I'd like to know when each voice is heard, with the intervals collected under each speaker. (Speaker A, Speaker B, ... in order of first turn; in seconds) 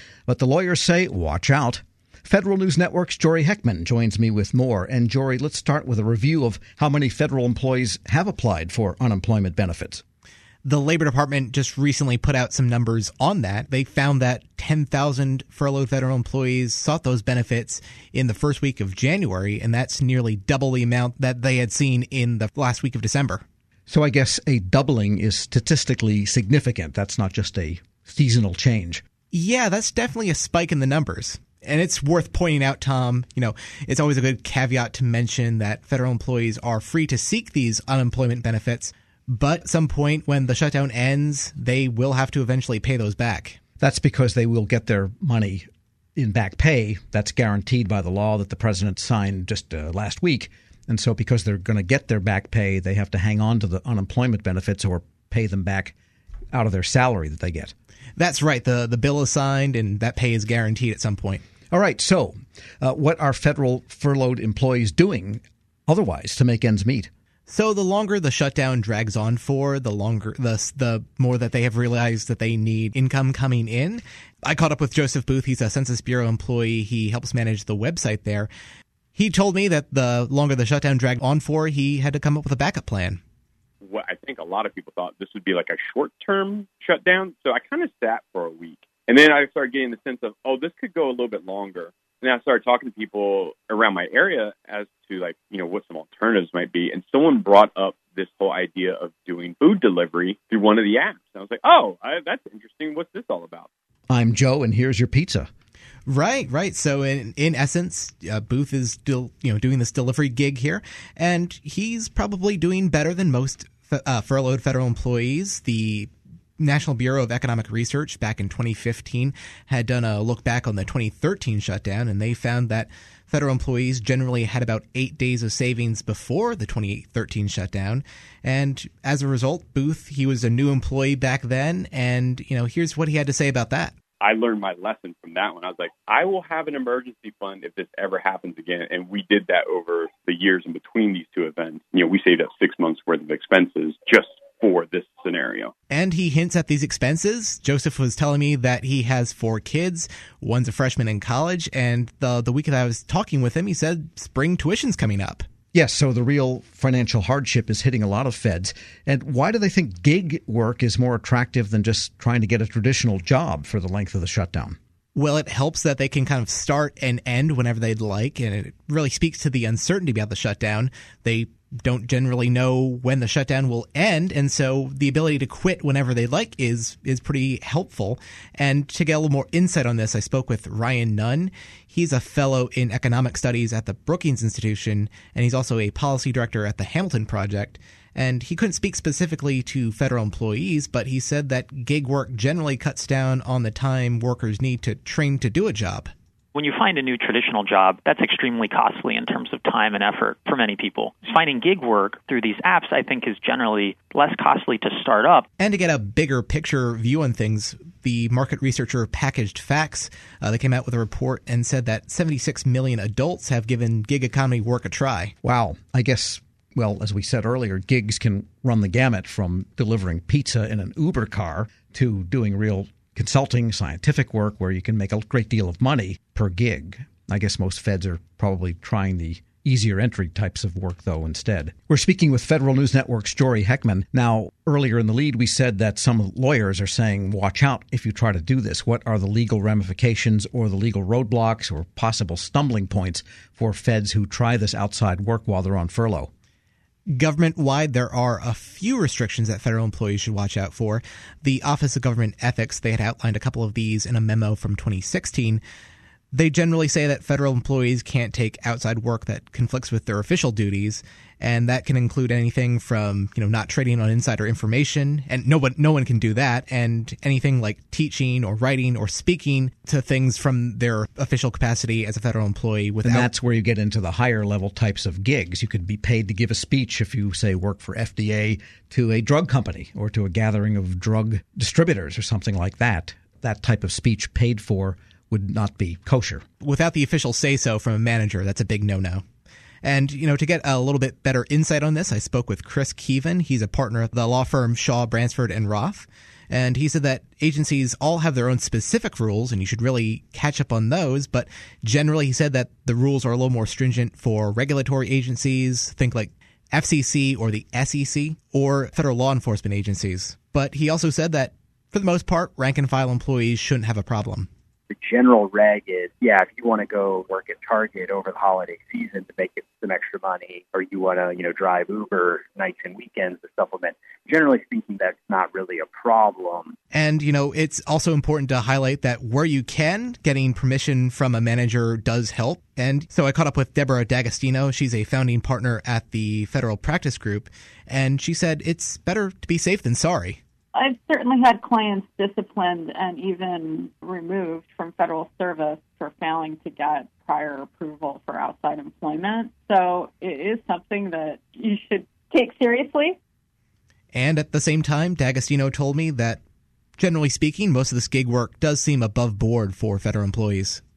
Speaker A: 0.3-10.0, 23.9-29.0, 43.8-45.6, 46.2-55.9, 56.5-57.7, 61.7-67.1, 104.1-105.5, 155.7-164.8, 215.4-246.3, 273.0-286.4
Speaker B: 10.6-23.4, 29.3-43.6, 58.2-61.4, 67.5-78.5, 79.1-83.2, 106.1-133.9, 145.9-155.4, 165.2-196.1, 205.6-215.3, 247.1-255.6, 256.3-273.3, 286.6-289.2, 289.8-314.5, 326.9-340.4, 354.1-356.4, 357.0-360.8
Speaker C: 83.8-103.7, 134.2-145.7
Speaker D: 196.5-205.4
Speaker E: 314.9-326.7
Speaker F: 340.7-353.2